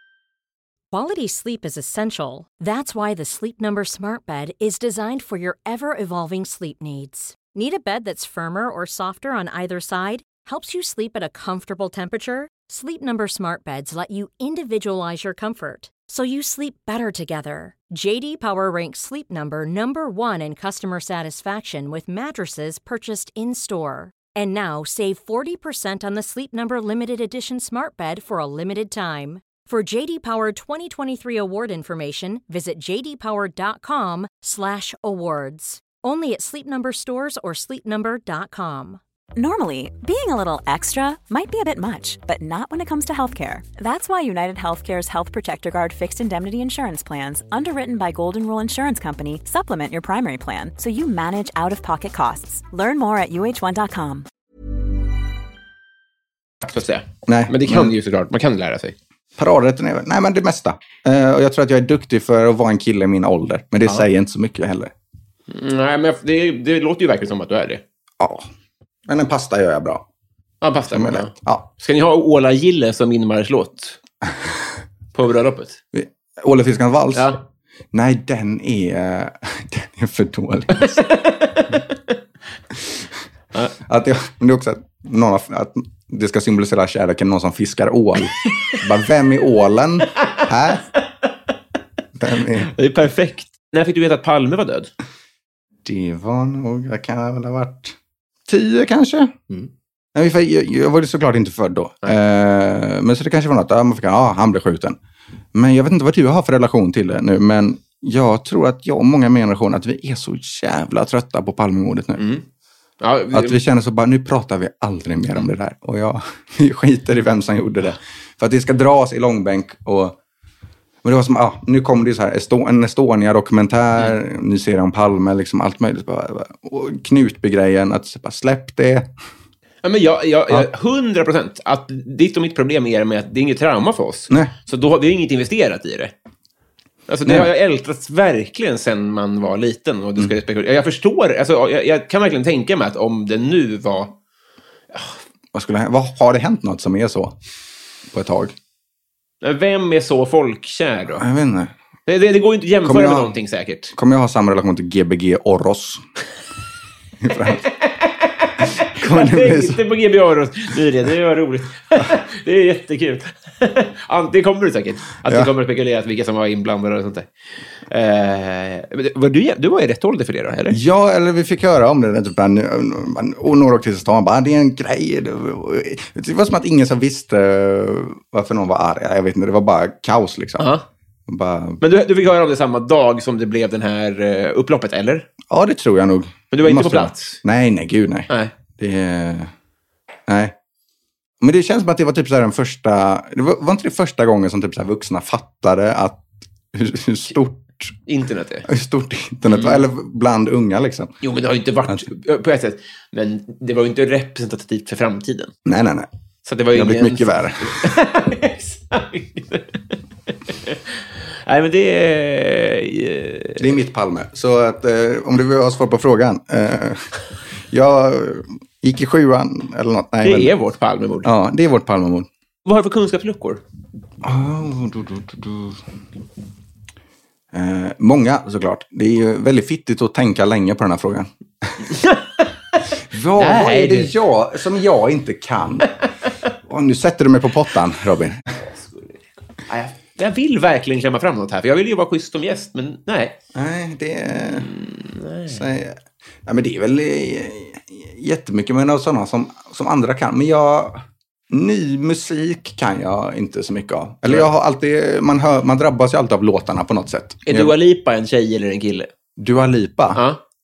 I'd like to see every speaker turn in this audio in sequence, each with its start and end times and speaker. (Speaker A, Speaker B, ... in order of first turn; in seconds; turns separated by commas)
Speaker A: 0.9-39.0, Speaker B: 39.4-54.3, Speaker C: 56.7-59.0, Speaker D: 57.3-58.0, Speaker D: 59.4-64.9, Speaker C: 65.5-67.8, Speaker D: 68.2-68.5, Speaker D: 69.1-70.1, Speaker C: 70.6-74.0, Speaker D: 70.9-71.7, Speaker C: 75.1-75.8, Speaker D: 75.9-77.3, Speaker C: 77.2-77.4, Speaker D: 77.9-81.0, Speaker C: 80.8-82.1, Speaker D: 83.8-90.8, Speaker D: 92.2-92.7, Speaker C: 92.7-94.9, Speaker D: 95.8-98.0, Speaker D: 98.5-99.4, Speaker D: 100.2-105.0, Speaker D: 105.5-112.3, Speaker C: 112.2-112.5, Speaker C: 113.0-113.6, Speaker D: 113.3-120.2, Speaker D: 121.0-129.1, Speaker C: 129.8-136.1, Speaker C: 137.1-144.2, Speaker D: 137.2-137.5, Speaker C: 144.9-145.2, Speaker D: 145.5-147.4, Speaker D: 148.1-148.6, Speaker C: 149.4-151.2, Speaker D: 151.2-151.7, Speaker C: 152.1-153.9, Speaker D: 152.8-153.3, Speaker D: 153.9-156.0, Speaker D: 157.2-157.6, Speaker C: 157.4-167.3, Speaker D: 158.9-159.8, Speaker C: 167.9-170.8, Speaker D: 170.7-180.7, Speaker C: 180.6-180.8, Speaker D: 181.3-181.8, Speaker C: 181.8-185.3, Speaker D: 185.5-189.5, Speaker C: 186.5-187.4, Speaker D: 190.3-190.6, Speaker D: 191.4-198.0, Speaker C: 198.1-198.7, Speaker D: 198.7-201.1, Speaker C: 199.5-199.8, Speaker C: 201.2-205.5, Speaker D: 205.7-206.1, Speaker C: 206.5-213.7, Speaker D: 206.7-207.9, Speaker D: 213.6-217.1, Speaker D: 217.7-220.5, Speaker C: 220.2-221.3, Speaker D: 221.2-222.3, Speaker C: 222.7-223.6, Speaker D: 224.2-225.8, Speaker D: 227.5-231.9, Speaker C: 231.9-234.2, Speaker D: 233.1-235.9, Speaker D: 236.6-238.4, Speaker C: 238.7-243.4, Speaker D: 243.6-244.7, Speaker C: 244.5-245.7, Speaker D: 245.5-257.8, Speaker C: 257.5-259.1, Speaker D: 259.4-260.2, Speaker C: 260.1-260.4